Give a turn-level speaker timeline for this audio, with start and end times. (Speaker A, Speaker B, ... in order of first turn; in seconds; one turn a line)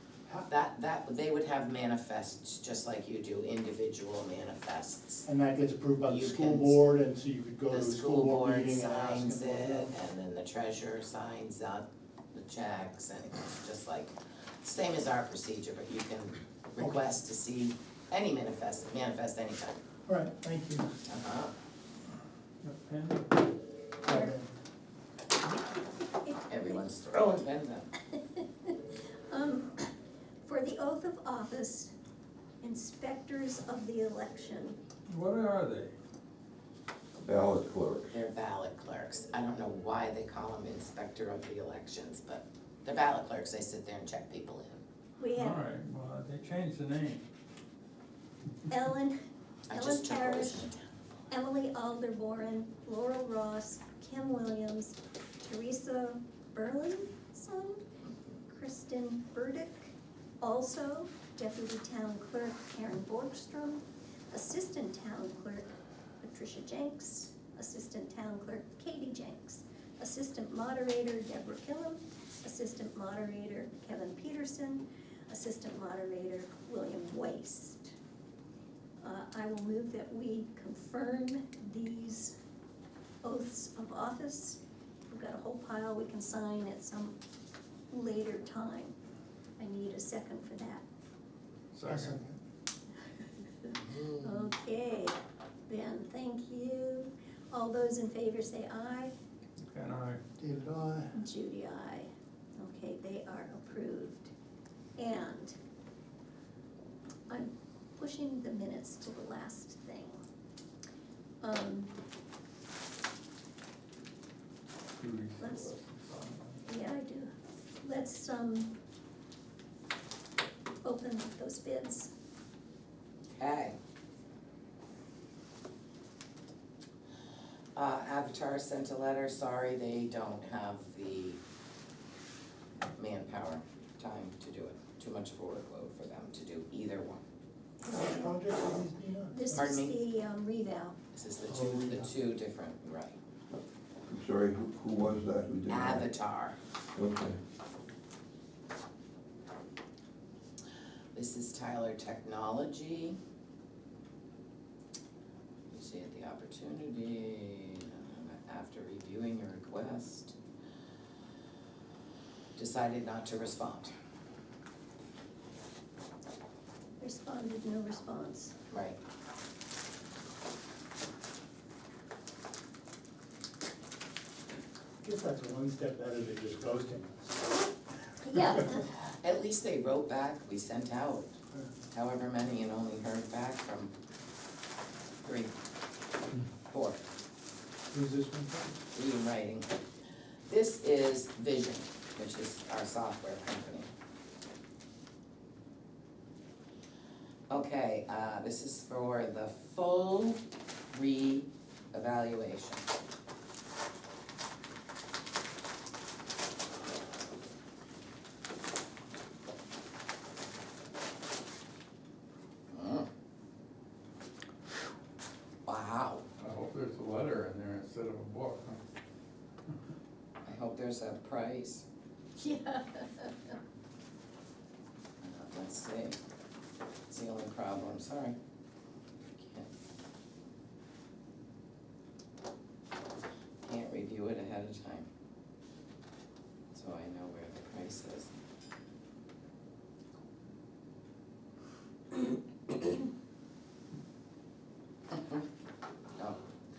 Speaker A: 0.5-5.2
Speaker B: 5.2-9.9
Speaker A: 6.0-6.8
Speaker A: 7.7-19.8
Speaker B: 20.1-20.9
Speaker A: 21.1-21.5
Speaker C: 22.6-23.2
Speaker B: 24.0-24.5
Speaker D: 24.0-24.3
Speaker D: 26.1-26.9
Speaker A: 26.5-27.9
Speaker D: 28.1-29.9
Speaker D: 30.4-31.9
Speaker D: 32.6-34.8
Speaker C: 35.1-35.9
Speaker E: 37.1-38.2
Speaker A: 38.1-44.8
Speaker D: 45.2-45.6
Speaker C: 45.3-47.2
Speaker D: 48.7-49.1
Speaker A: 49.7-50.8
Speaker D: 49.7-50.7
Speaker D: 51.3-57.8
Speaker D: 58.5-65.7
Speaker D: 66.2-77.9
Speaker D: 79.0-82.3
Speaker D: 83.2-87.1
Speaker D: 87.9-88.9
Speaker D: 89.6-90.8
Speaker C: 91.7-92.2
Speaker B: 91.8-92.4
Speaker D: 93.6-95.2
Speaker D: 95.7-99.1
Speaker C: 99.6-100.2
Speaker B: 100.4-101.2
Speaker D: 101.1-104.3
Speaker D: 105.0-105.5
Speaker D: 107.3-110.2
Speaker D: 111.4-112.0
Speaker C: 115.0-116.6
Speaker D: 115.4-115.7
Speaker D: 116.7-118.7
Speaker D: 120.8-122.1
Speaker A: 123.3-123.8
Speaker A: 127.7-131.4
Speaker A: 132.9-137.2
Speaker B: 137.8-139.8
Speaker D: 139.3-140.9
Speaker A: 139.5-140.0
Speaker A: 141.1-143.2
Speaker B: 141.4-142.1
Speaker E: 144.1-146.1
Speaker A: 145.7-146.6
Speaker E: 146.9-147.4
Speaker A: 151.1-153.2
Speaker A: 155.7-160.3
Speaker A: 162.6-163.9
Speaker D: 167.0-168.5
Speaker A: 168.7-169.0
Speaker B: 175.0-177.4
Speaker D: 178.2-178.8
Speaker A: 178.9-181.3
Speaker A: 181.9-183.9
Speaker A: 185.2-185.5
Speaker A: 186.7-187.0
Speaker B: 187.9-188.8
Speaker A: 188.9-189.7
Speaker A: 190.5-193.9
Speaker A: 197.5-200.4
Speaker A: 200.9-202.9
Speaker A: 212.7-213.1
Speaker A: 215.7-216.2
Speaker C: 216.4-218.8
Speaker A: 220.4-221.8
Speaker D: 222.4-223.5
Speaker A: 225.2-226.2
Speaker A: 227.1-228.3
Speaker A: 229.3-229.7
Speaker A: 233.6-235.1
Speaker A: 236.7-238.3
Speaker A: 245.1-245.4